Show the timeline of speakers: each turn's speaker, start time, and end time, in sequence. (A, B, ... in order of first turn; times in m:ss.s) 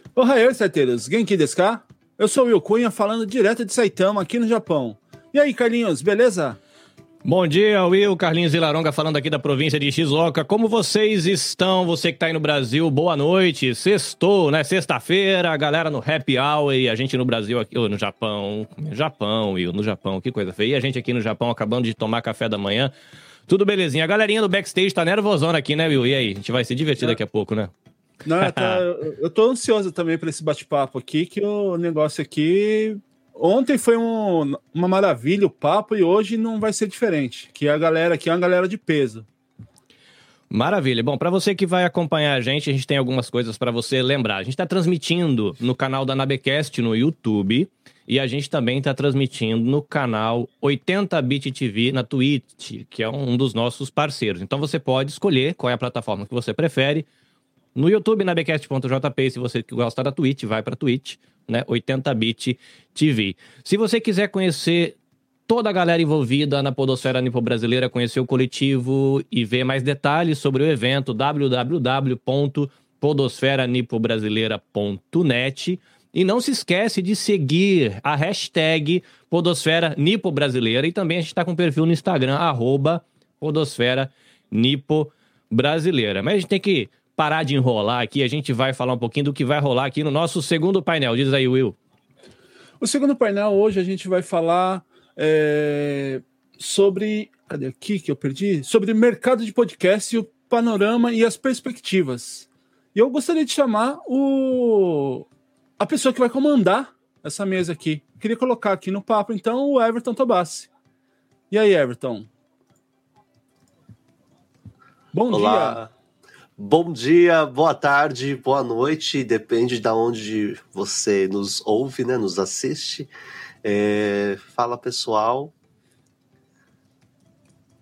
0:00.2-0:06.6 A
0:07.2-0:22.9 B
0:23.5-0:27.7 B
0:28.2-0:39.3 A
0:28.4-0:28.8 B
0:40.5-0:57.1 B
0:57.8-1:05.0 B
1:05.5-1:31.8 B
1:32.8-1:45.3 A
1:45.8-1:50.7 A
1:51.5-1:52.3 A
1:55.1-1:55.8 A
1:55.3-1:55.9 C
1:56.6-2:03.1 C
2:03.6-2:05.5 C